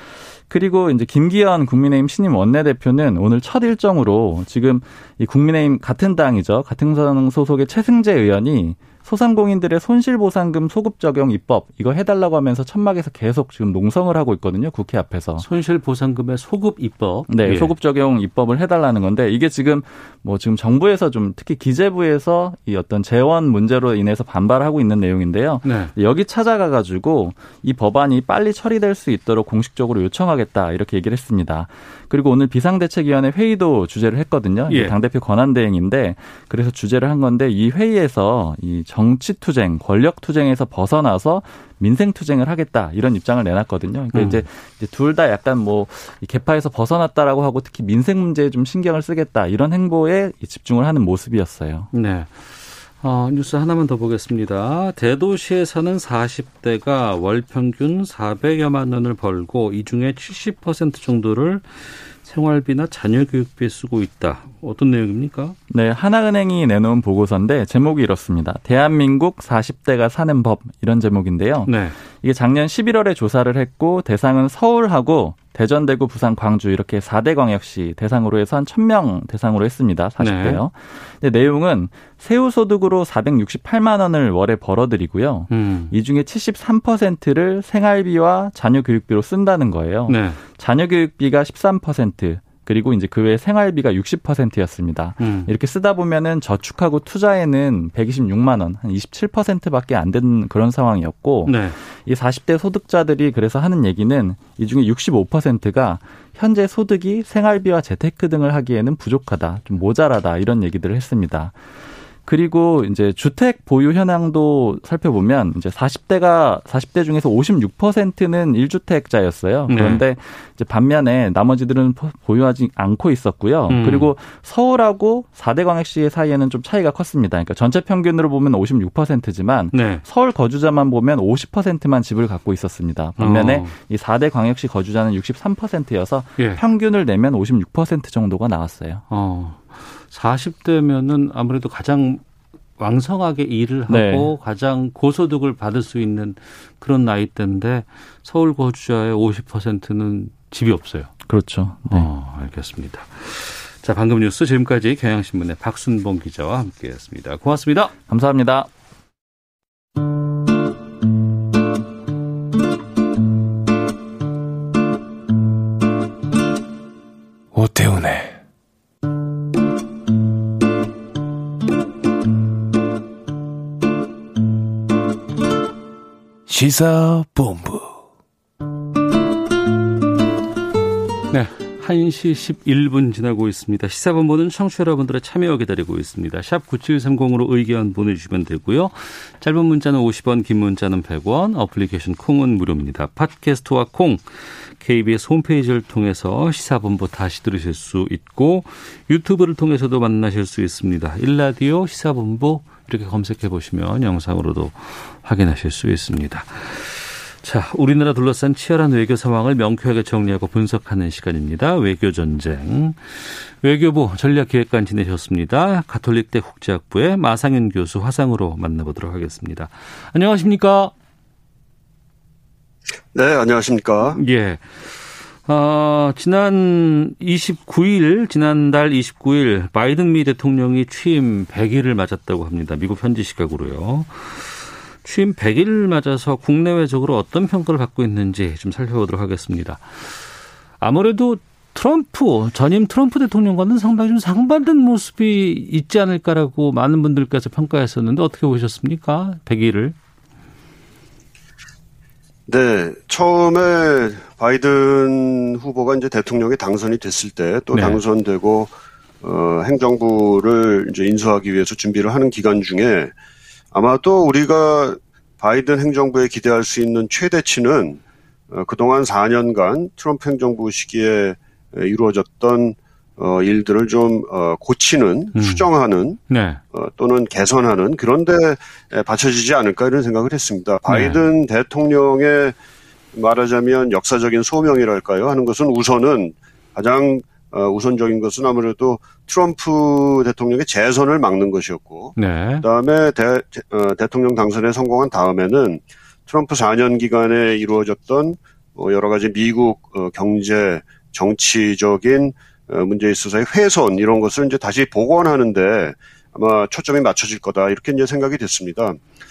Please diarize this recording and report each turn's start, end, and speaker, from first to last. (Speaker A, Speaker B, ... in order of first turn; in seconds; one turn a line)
Speaker A: 0.5-15.5
Speaker B: 15.4-17.7
Speaker A: 17.3-51.9
Speaker B: 25.6-25.9
Speaker B: 34.7-34.9
Speaker B: 44.1-44.4
Speaker B: 51.9-65.5
Speaker A: 65.7-111.5
Speaker B: 71.7-71.9
Speaker B: 80.2-80.6
Speaker B: 85.5-85.9
Speaker B: 90.1-90.4
Speaker B: 95.2-95.5
Speaker B: 101.5-101.8
Speaker A: 112.2-139.0
Speaker B: 119.7-120.0
Speaker B: 123.7-124.1
Speaker B: 129.7-130.0
Speaker B: 133.2-133.7
Speaker B: 139.1-142.2
Speaker B: 142.8-151.1
Speaker A: 143.9-144.3
Speaker A: 151.3-152.1
Speaker B: 151.9-157.9
Speaker A: 158.1-158.7
Speaker C: 167.5-168.3
Speaker C: 176.5-177.8
Speaker B: 181.3-220.9
Speaker D: 223.1-224.2
Speaker B: 224.2-240.3
Speaker B: 240.8-250.0
Speaker D: 252.5-263.1
Speaker B: 257.7-258.0
Speaker D: 263.7-268.0
Speaker D: 268.5-282.6
Speaker B: 275.4-275.7
Speaker B: 276.3-276.6
Speaker B: 280.9-281.2
Speaker D: 283.1-309.0
Speaker B: 292.1-292.6